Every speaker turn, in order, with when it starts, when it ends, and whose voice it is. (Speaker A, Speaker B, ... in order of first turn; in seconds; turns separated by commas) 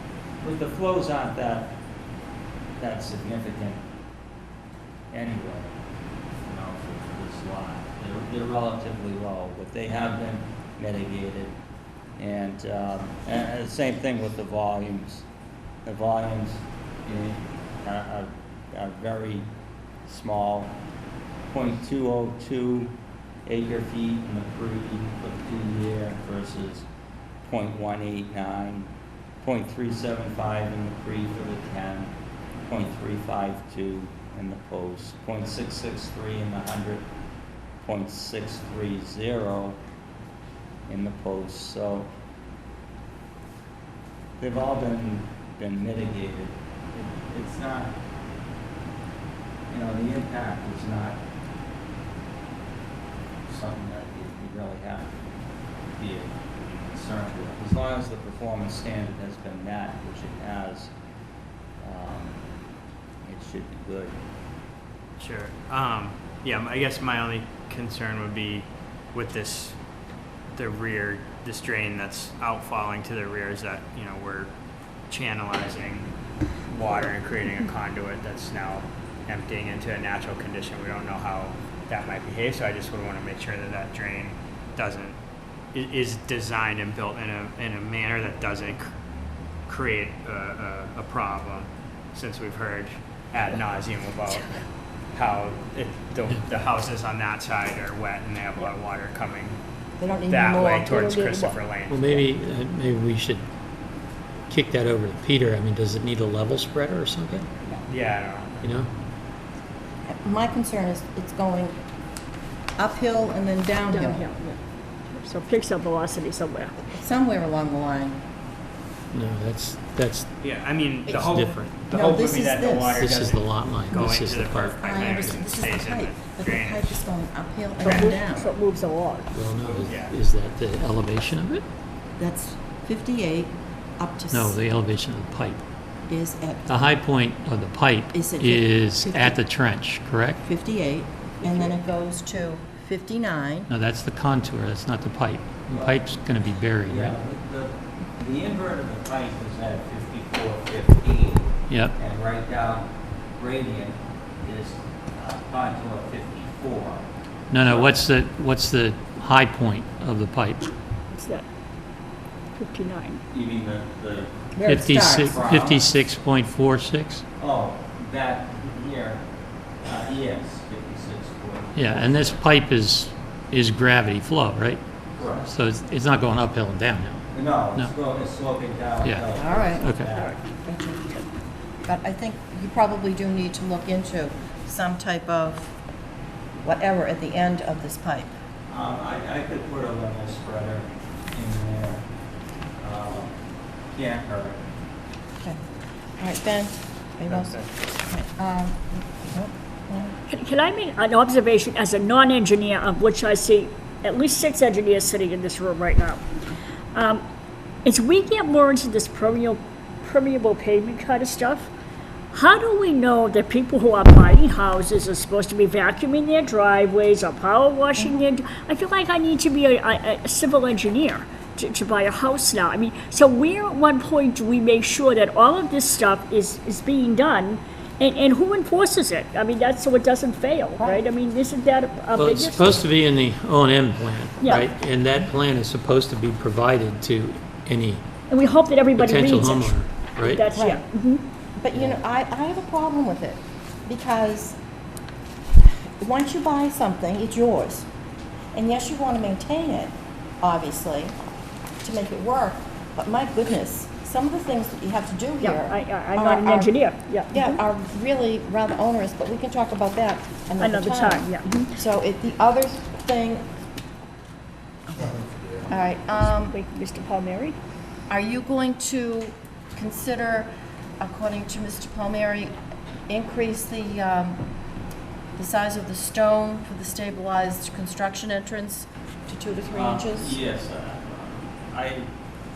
Speaker A: 0.4-1.8, Speaker A: 2.8-3.8, Speaker A: 5.1-5.7, Speaker A: 6.4-11.6, Speaker A: 12.2-15.2, Speaker A: 15.8-19.5, Speaker A: 20.1-20.8, Speaker A: 21.5-22.9, Speaker A: 23.4-26.9, Speaker A: 27.4-28.9, Speaker A: 29.4-32.1, Speaker A: 32.6-37.0, Speaker A: 37.8-39.8, Speaker A: 40.9-42.1, Speaker A: 44.4-48.0, Speaker A: 49.7-51.2, Speaker A: 53.5-55.1, Speaker A: 55.9-60.9, Speaker A: 61.8-62.4, Speaker A: 63.2-64.2, Speaker B: 65.2-69.8, Speaker B: 70.5-74.5, Speaker B: 75.1-76.1, Speaker B: 76.7-85.2, Speaker B: 85.7-88.8, Speaker B: 89.7-94.5, Speaker B: 95.1-99.6, Speaker C: 100.0-101.5, Speaker B: 100.3-102.2, Speaker D: 101.9-103.4, Speaker D: 104.5-107.5, Speaker B: 107.9-108.7, Speaker D: 108.6-108.9, Speaker C: 110.1-111.8, Speaker C: 112.8-114.2, Speaker E: 113.9-114.6, Speaker E: 115.1-116.8, Speaker C: 116.9-118.2, Speaker D: 119.1-120.3, Speaker B: 120.4-127.0, Speaker C: 121.1-123.1, Speaker D: 121.1-121.7, Speaker D: 123.0-125.4, Speaker C: 124.8-128.5, Speaker E: 127.8-129.3, Speaker D: 129.3-131.6, Speaker B: 129.8-130.1, Speaker C: 132.2-134.6, Speaker D: 134.3-135.6, Speaker C: 136.1-136.9, Speaker D: 136.7-140.4, Speaker C: 138.1-139.4, Speaker C: 140.4-143.7, Speaker D: 143.7-147.2, Speaker A: 145.7-146.0, Speaker A: 146.8-157.0, Speaker D: 151.7-151.9, Speaker D: 157.5-160.6, Speaker A: 157.6-157.9, Speaker E: 161.1-161.4, Speaker E: 162.6-163.2, Speaker A: 163.3-164.3, Speaker C: 164.6-165.4, Speaker D: 164.6-167.2, Speaker A: 165.2-165.9, Speaker A: 167.4-169.2, Speaker A: 169.8-172.4, Speaker D: 171.7-174.8, Speaker A: 175.2-175.5, Speaker D: 175.5-177.9, Speaker A: 177.3-180.3, Speaker C: 179.3-180.0, Speaker D: 179.8-180.1, Speaker C: 180.5-181.2, Speaker C: 181.8-185.7, Speaker C: 186.6-188.3, Speaker A: 188.7-192.0, Speaker A: 192.8-193.3, Speaker A: 193.9-194.6, Speaker C: 196.2-200.2, Speaker B: 197.3-197.7, Speaker E: 200.3-206.2, Speaker E: 206.9-207.2, Speaker E: 207.8-211.7, Speaker E: 212.3-232.7, Speaker D: 232.1-238.0, Speaker E: 234.4-234.7, Speaker E: 238.3-241.2, Speaker D: 238.9-240.5, Speaker C: 240.5-240.8, Speaker C: 241.6-244.6, Speaker C: 246.0-247.9, Speaker C: 248.5-251.1, Speaker C: 251.8-256.7, Speaker E: 255.4-257.6, Speaker C: 257.3-263.5, Speaker E: 260.6-261.7, Speaker C: 264.9-266.5, Speaker E: 266.4-267.6, Speaker C: 268.1-272.5, Speaker C: 273.1-274.4, Speaker C: 275.4-280.4, Speaker A: 279.6-282.1